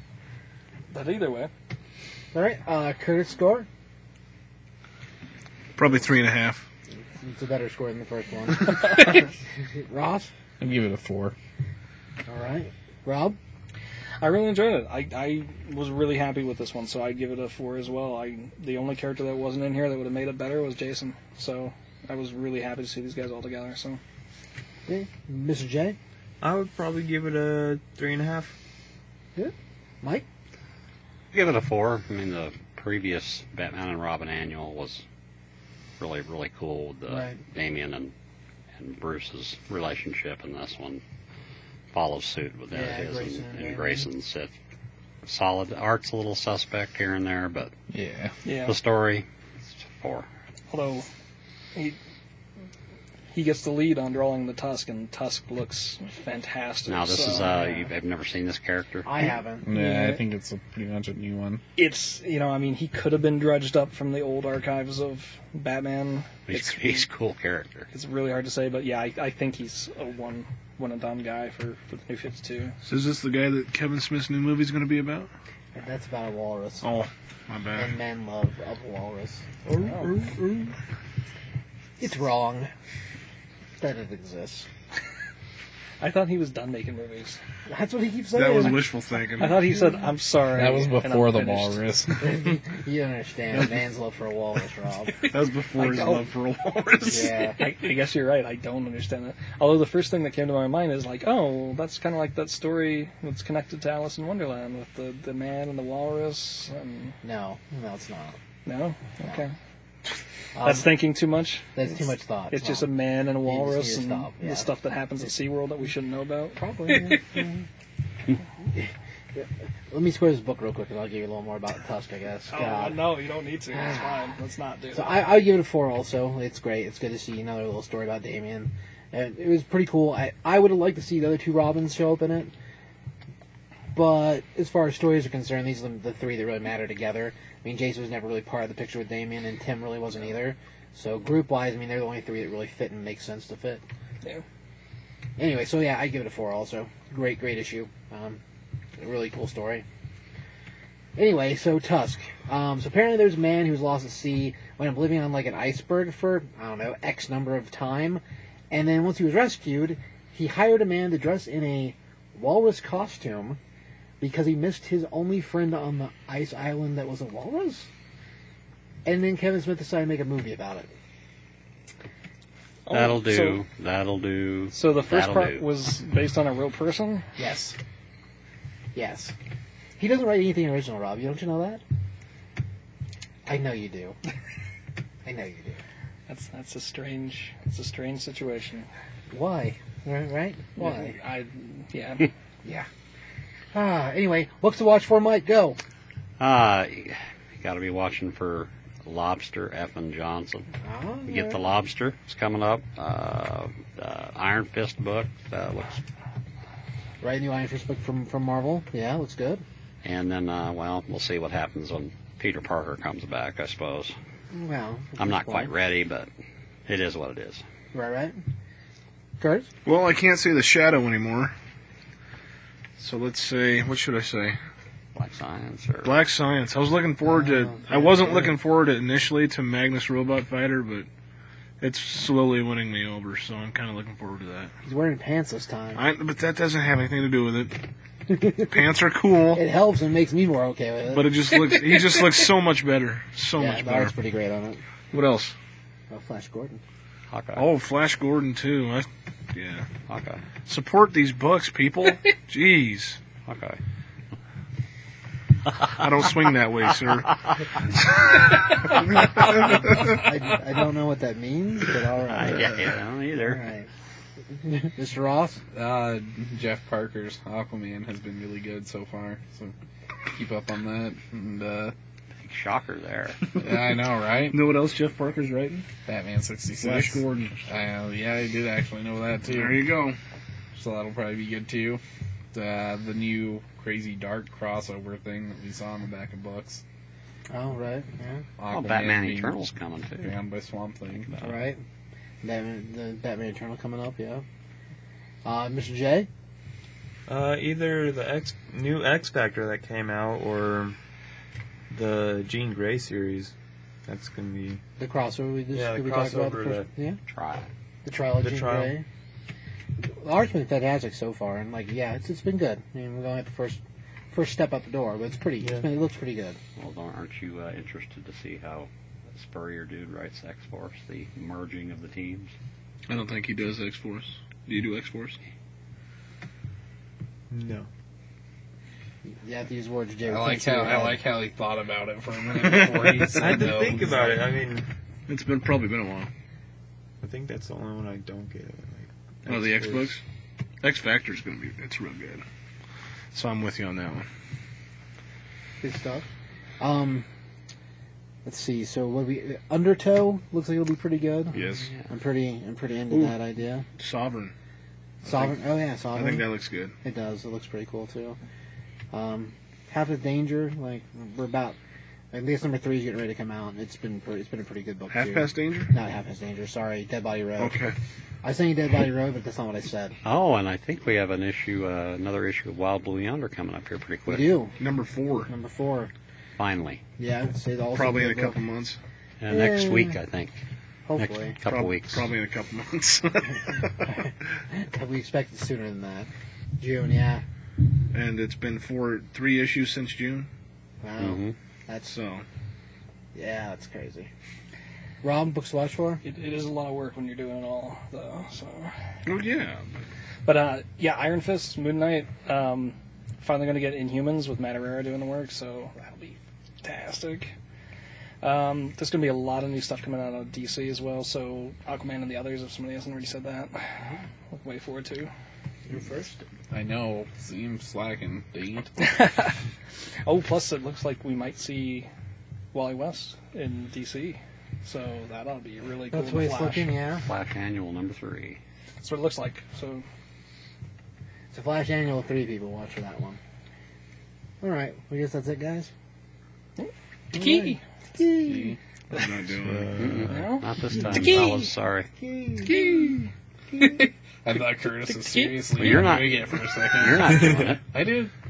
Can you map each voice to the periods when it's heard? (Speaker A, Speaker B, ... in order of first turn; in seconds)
Speaker A: 0.9-1.5, 8.6-9.2, 14.2-24.0, 48.5-48.8, 50.7-51.1, 53.3-57.7, 59.7-60.2, 61.8-67.1, 67.9-72.8, 79.8-80.2, 86.0-87.4, 89.4-91.8, 95.8-96.3, 97.6-107.2, 108.7-109.5, 110.6-111.7, 112.5-117.2, 122.5-125.2, 172.9-173.6, 174.7-177.3, 186.3-188.9, 190.8-192.3, 396.2-398.9, 400.5-407.5, 408.4-415.3, 419.0-419.6, 420.2-422.1, 422.7-426.9, 429.0-430.1, 436.8-437.8, 440.3-441.7, 442.6-443.3, 445.0-445.6
Speaker B: 2.3-3.7, 7.0-10.3, 12.3-13.4, 24.9-26.0, 29.4-30.2, 37.1-37.4, 42.7-44.1, 57.4-57.9, 59.1-59.7, 75.7-76.9, 77.7-79.5, 82.0-82.7, 83.8-84.7, 87.7-88.8, 89.4-90.0, 92.2-95.2, 97.1-97.6, 107.2-108.4, 110.5-110.9, 111.7-112.9, 113.4-114.7, 116.6-117.7, 118.7-123.0, 123.7-124.3, 124.9-132.5, 133.9-143.8, 145.4-148.4, 149.0-149.8, 151.2-163.6, 164.2-167.9, 169.1-170.9, 177.4-177.8, 178.9-179.3, 180.0-181.8, 183.4-184.2, 185.2-185.8, 189.3-191.2, 193.7-195.8, 200.8-201.6, 207.2-209.6, 214.5-215.7, 217.9-218.4, 219.4-219.7, 227.2-228.6, 234.8-236.0, 238.3-238.7, 239.5-241.3, 243.6-244.8, 246.1-246.8, 259.7-262.9, 263.4-263.9, 264.6-265.6, 287.5-288.4, 291.4-291.8, 292.4-294.4, 295.4-296.3, 305.0-307.2, 308.1-309.1, 310.0-313.8, 314.3-316.6, 329.3-331.2, 345.8-346.3, 346.8-347.3, 348.4-353.9, 355.2-356.5, 357.0-358.4, 359.1-361.8, 362.3-367.8, 368.4-370.2, 374.3-374.8, 375.5-376.1, 377.2-378.6, 379.5-380.2, 381.1-381.6, 384.0-387.4, 391.0-392.1, 393.4-394.3, 395.2-396.2, 415.9-416.3, 426.1-427.3, 431.5-433.4, 434.6-435.9, 437.3-438.8, 442.2-443.2
Speaker C: 5.8-6.7, 72.8-75.3, 76.8-77.9, 88.3-89.6, 95.3-97.6, 219.9-221.5, 223.0-224.6, 226.0-231.1, 231.8-234.7, 235.9-237.8, 238.6-239.6, 241.1-244.1, 245.1-245.6, 247.6-249.9, 250.7-253.2, 256.0-257.9, 259.0-260.2, 273.5-275.9, 276.7-277.6, 279.4-280.2, 323.1-325.4, 332.5-333.3, 335.3-336.3, 339.5-340.2, 340.8-342.4, 343.3-344.3, 351.5-352.0, 353.1-353.4, 354.0-354.5, 355.2-355.6, 356.1-356.9, 365.1-365.9, 367.6-368.0, 374.8-375.5, 377.9-379.0, 381.7-384.1, 388.1-390.5, 392.1-392.4, 399.3-399.9, 439.1-440.1
Speaker D: 10.6-11.3, 47.9-48.4, 59.6-61.6, 90.5-92.5, 265.7-269.7, 270.3-271.9, 273.6-274.6, 276.1-279.8, 280.7-282.0, 282.5-286.8, 288.6-289.7, 290.2-291.4, 330.3-334.3, 416.7-418.9, 438.3-438.8, 444.4-448.3
Speaker E: 26.4-28.6, 79.7-80.7, 297.3-301.0, 301.9-303.5, 304.1-304.8, 305.7-306.9, 308.4-308.9, 315.6-315.9, 327.5-327.9, 333.2-334.9, 337.2-340.2, 439.6-440.4
Speaker F: 31.3-35.0, 36.0-38.1, 38.8-41.0, 41.9-44.5, 45.2-47.7, 48.5-50.3, 56.9-59.1, 66.5-67.9, 172.9-175.6, 196.4-200.7, 201.3-206.0, 210.0-214.2, 215.2-216.3, 216.9-217.7, 225.1-226.1, 247.3-247.7, 250.1-250.4, 253.5-253.8, 255.7-256.3, 258.5-259.5, 262.3-263.6, 272.4-273.6, 288.7-290.4, 291.1-291.5, 307.3-307.7, 316.8-322.5, 370.2-374.5, 376.6-377.0, 379.4-380.6, 381.1-382.3, 391.2-391.6, 427.2-428.6, 440.0-442.1, 445.7-447.8